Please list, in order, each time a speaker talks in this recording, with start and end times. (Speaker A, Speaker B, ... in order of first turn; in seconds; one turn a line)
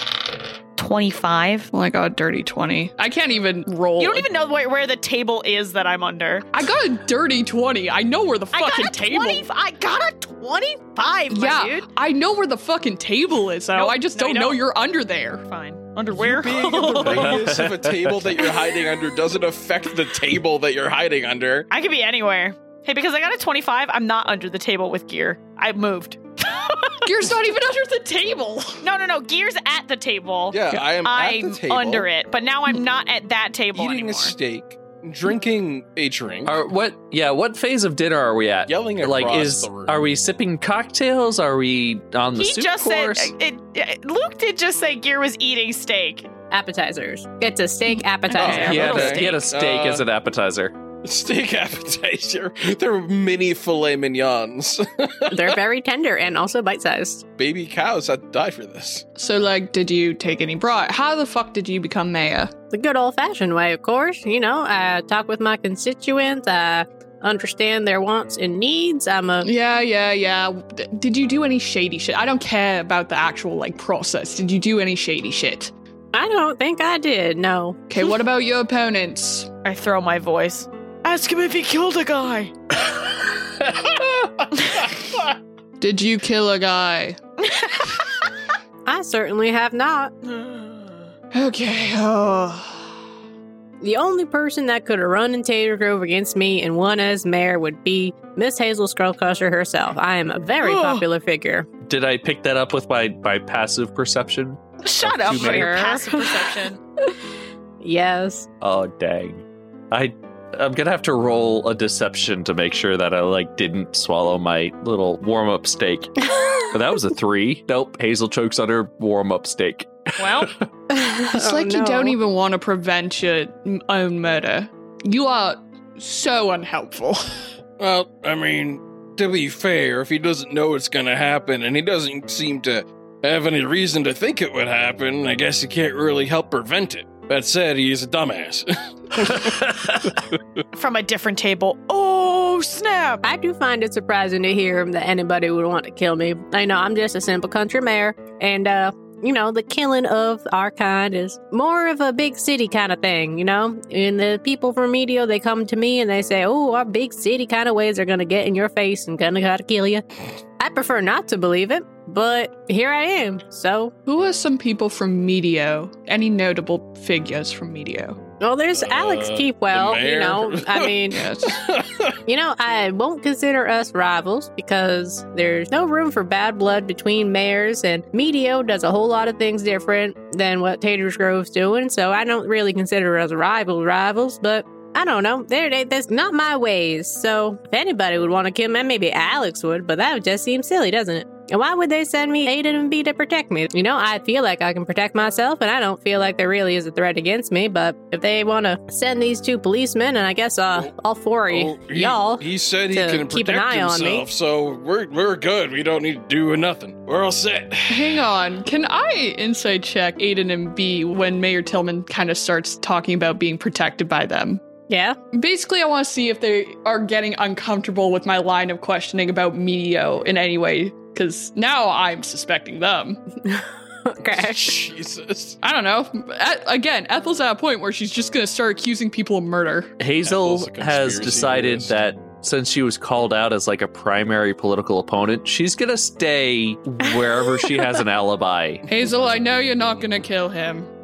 Speaker A: 0.8-1.7
Speaker B: 1.7-4.3
Speaker A: 4.0-6.5
Speaker B: 6.5-9.4
Speaker A: 8.5-11.9
Speaker B: 11.3-15.4
Speaker A: 13.7-14.6
Speaker A: 15.4-17.5
Speaker C: 16.1-21.7
Speaker D: 17.0-18.3
Speaker A: 21.7-27.0
Speaker B: 27.0-28.8
Speaker A: 28.8-34.4
Speaker C: 30.5-32.1
Speaker C: 33.7-36.6
Speaker D: 36.5-43.3
Speaker C: 38.7-40.0
Speaker A: 42.4-46.3
Speaker E: 46.5-49.3
Speaker C: 48.3-50.0
Speaker D: 48.5-50.7
Speaker C: 51.0-55.6
Speaker E: 55.3-57.2
Speaker C: 57.4-59.0
Speaker B: 59.1-62.5
Speaker E: 62.7-69.5
Speaker B: 69.4-75.7
Speaker E: 76.1-77.8
Speaker B: 77.9-79.5
Speaker A: 79.6-82.5
Speaker B: 85.8-87.2
Speaker A: 87.4-88.3
Speaker E: 88.8-90.1
Speaker A: 90.3-90.8
Speaker B: 91.3-92.8
Speaker E: 93.8-101.7
Speaker A: 100.6-101.0
Speaker D: 101.8-105.8
Speaker A: 104.8-106.8
Speaker E: 105.2-106.5
Speaker E: 107.8-108.5
Speaker D: 108.6-120.6
Speaker A: 120.2-120.5
Speaker E: 120.9-122.2
Speaker B: 121.3-127.5
Speaker C: 127.8-139.6
Speaker D: 139.5-140.0
Speaker A: 140.7-143.2
Speaker E: 143.2-160.0
Speaker E: 160.6-163.9
Speaker B: 164.1-168.2
Speaker E: 168.4-171.2
Speaker C: 168.7-172.2
Speaker B: 171.1-171.6
Speaker E: 172.2-204.3
Speaker C: 201.5-208.2
Speaker B: 207.9-214.6
Speaker E: 214.9-215.2
Speaker B: 215.3-223.2
Speaker E: 223.4-224.8
Speaker C: 224.3-225.6
Speaker B: 225.6-229.9
Speaker D: 230.0-238.8
Speaker C: 230.2-231.9
Speaker B: 238.9-240.9